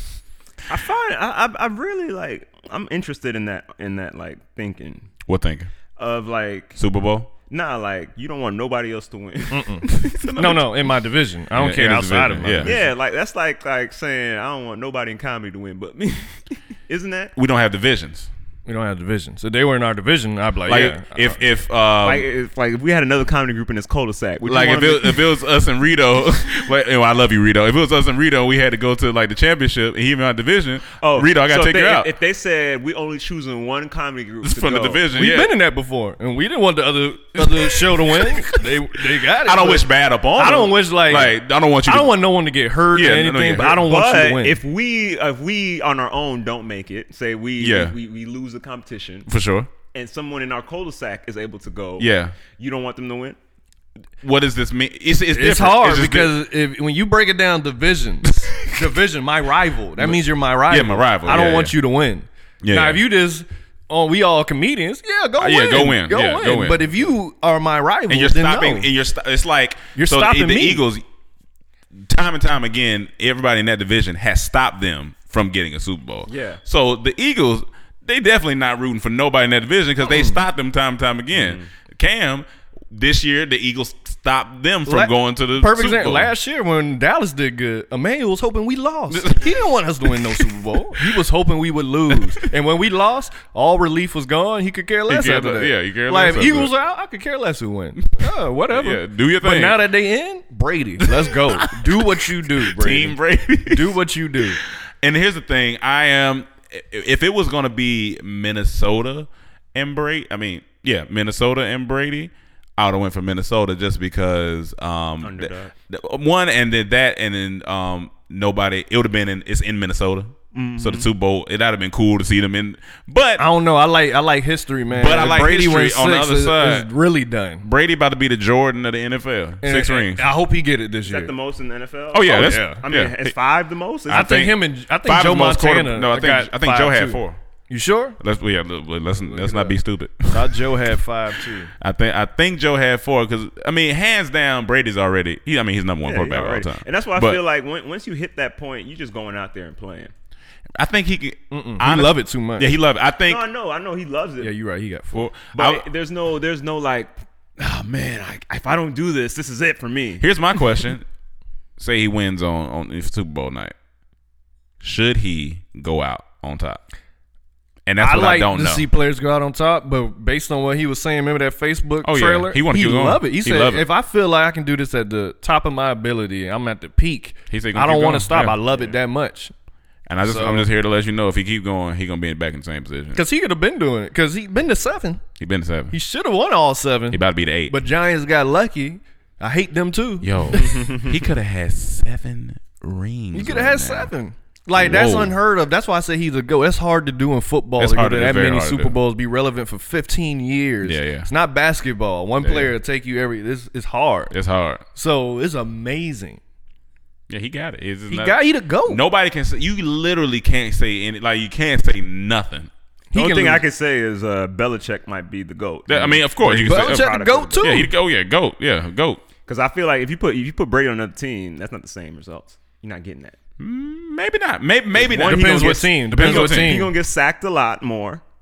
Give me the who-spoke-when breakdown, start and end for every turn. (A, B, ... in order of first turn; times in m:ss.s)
0:00.7-0:05.1 A
0:05.2-0:05.7 B
0:06.0-0:06.8 A
0:06.8-0:07.3 B
0:07.5-0:10.3 A
0:09.5-0:12.8 C
0:10.0-0:11.0 B
0:11.5-0:12.8 B
0:12.6-0:17.3 A
0:17.4-0:18.3 B
0:18.6-0:21.4 C
0:20.6-0:22.3 B
0:22.0-0:25.3 A
0:24.4-0:32.1 B
0:31.0-0:35.0 A
0:34.4-0:35.5 B
0:35.1-0:44.6 C
0:37.4-0:42.2 B
0:42.9-0:43.9 B
0:43.7-0:49.3 A
0:47.6-0:47.9 B
0:49.3-0:49.7 B
0:49.9-0:53.4 A
0:52.0-0:52.3 B
0:54.2-0:56.4 B
0:55.3-1:08.9 C
0:58.4-0:58.9 B
1:00.0-1:01.7 B
1:02.6-1:03.0 B
1:05.4-1:06.9 B
1:08.1-1:11.0 B
1:10.0-1:10.8 C
1:11.9-1:26.3 B
1:16.3-1:16.6 A
1:20.0-1:20.4 C
1:21.3-1:21.7 A
1:24.8-1:44.6 C
1:29.1-1:31.2 B
1:32.1-1:32.4 B
1:35.1-1:36.7 B
1:38.2-1:39.8 B
1:41.0-2:03.4 B
1:55.2-1:55.7 A
2:00.5-2:01.1 A
2:03.4-2:07.7 C
2:04.9-2:06.9 B
2:07.6-2:10.3 B
2:09.6-2:11.3 C
2:11.0-2:14.5 A
2:12.1-2:13.3 B
2:12.3-2:12.8 C
2:14.1-2:17.4 B
2:14.1-2:18.2 C
2:18.2-2:27.4 B
2:19.2-2:19.8 C
2:20.3-2:21.7 C
2:26.0-2:30.1 A
2:30.8-2:33.4 B
2:31.5-2:32.7 C
2:33.2-2:34.5 A
2:34.4-2:35.3 C
2:35.1-2:35.9 B
2:35.5-2:40.2 A
2:40.2-2:41.0 B
2:41.8-2:43.7 B
2:44.8-2:46.8 B
2:47.8-2:48.8 B
2:48.0-2:59.5 C
2:52.0-2:53.8 B
2:57.5-2:58.6 B
3:00.1-3:03.2 B
3:00.2-3:00.7 C
3:03.1-3:05.2 C
3:05.4-3:05.9 B
3:05.9-3:10.9 C
3:07.1-3:07.7 B
3:10.2-3:14.1 B
3:10.6-3:11.1 A
3:13.3-3:24.3 C
3:14.8-3:15.4 B
3:17.8-3:19.0 B
3:20.8-3:21.3 B
3:22.4-3:22.7 B
3:24.3-3:24.8 B
3:24.9-3:26.4 C
3:27.3-3:32.7 B
3:28.1-3:29.0 C
3:33.1-3:33.6 C
3:33.1-3:37.8 A
3:35.9-3:39.2 B
3:36.4-3:37.9 C
3:39.5-3:43.4 A
3:43.6-3:46.8 B
3:44.9-3:48.2 A
3:45.2-3:46.9 C